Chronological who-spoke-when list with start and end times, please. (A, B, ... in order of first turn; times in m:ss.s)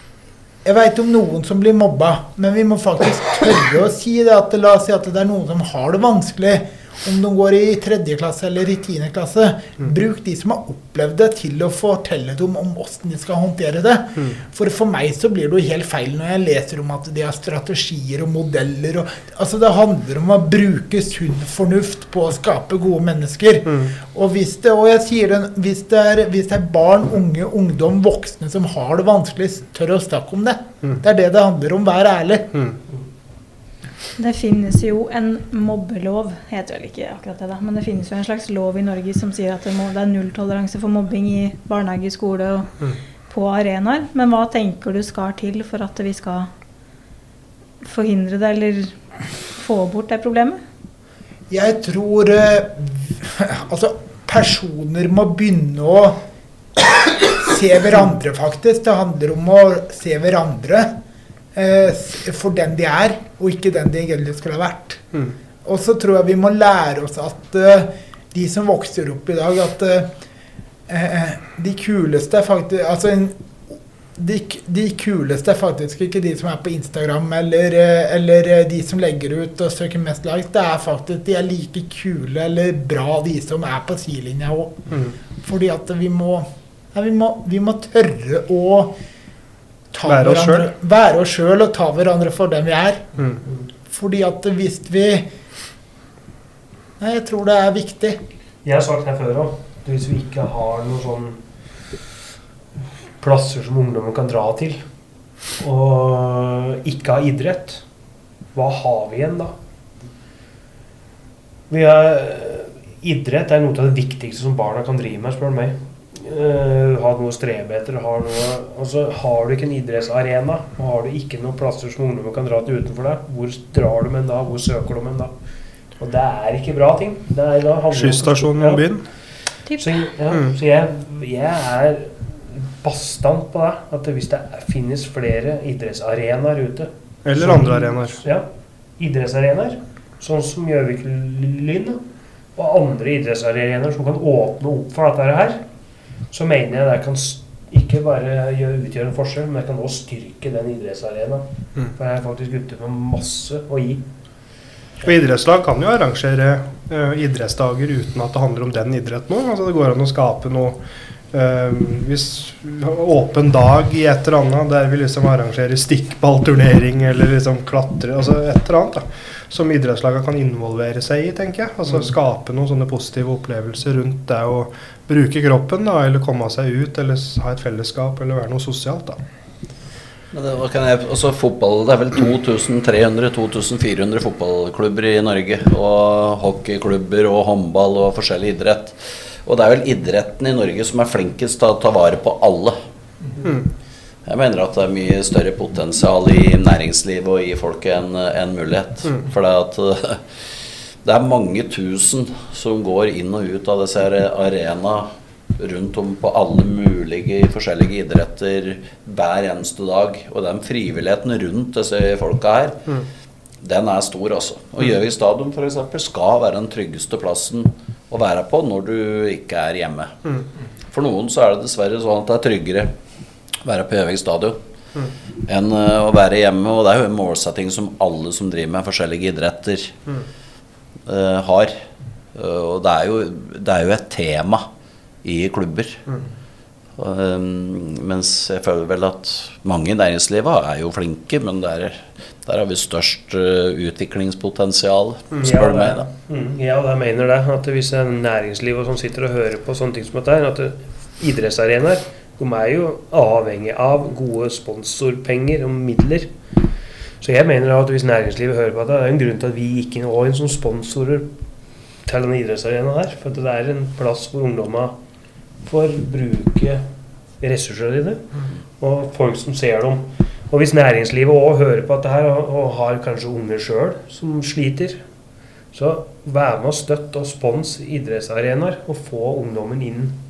0:00.6-0:32.5 A
0:23.6-0:23.9 B
0:34.2-0:46.5 C
0:47.8-0:50.6 C
0:51.5-0:56.2 A
0:56.8-1:00.9 A
1:01.5-1:05.0 A
1:05.6-1:10.1 A
1:10.9-1:24.9 A
1:24.9-1:25.2 B
1:25.4-1:29.0 A
1:29.9-1:33.1 A
1:30.0-1:30.7 B
1:33.2-1:33.4 B
1:33.9-1:35.3 A
1:37.0-1:38.2 A
1:38.6-1:41.4 D
1:43.2-1:44.8 D
1:45.6-1:47.8 D
1:48.5-1:49.5 D
1:51.7-2:05.3 D
2:06.0-2:08.8 D
2:07.9-2:09.0 B
2:09.6-2:10.0 C
2:09.7-2:22.0 D
2:17.2-2:18.2 B
2:22.5-2:25.6 D
2:26.3-2:34.0 D
2:35.0-2:40.8 B
2:41.3-2:59.2 B
3:00.3-3:12.8 E
3:14.2-3:20.4 E
3:21.0-3:32.9 E
3:33.6-3:40.2 E
3:40.9-3:42.9 E
3:43.6-3:44.6 E
3:45.4-3:49.9 E
3:51.1-3:51.8 E
3:52.3-3:54.6 E
3:55.2-3:56.0 E
3:57.0-4:06.1 E
4:05.3-4:05.7 B
4:05.4-4:16.3 D
4:17.2-4:21.3 D
4:22.0-4:25.0 D
4:25.6-4:26.8 D
4:27.4-4:35.0 D
4:35.7-4:40.2 D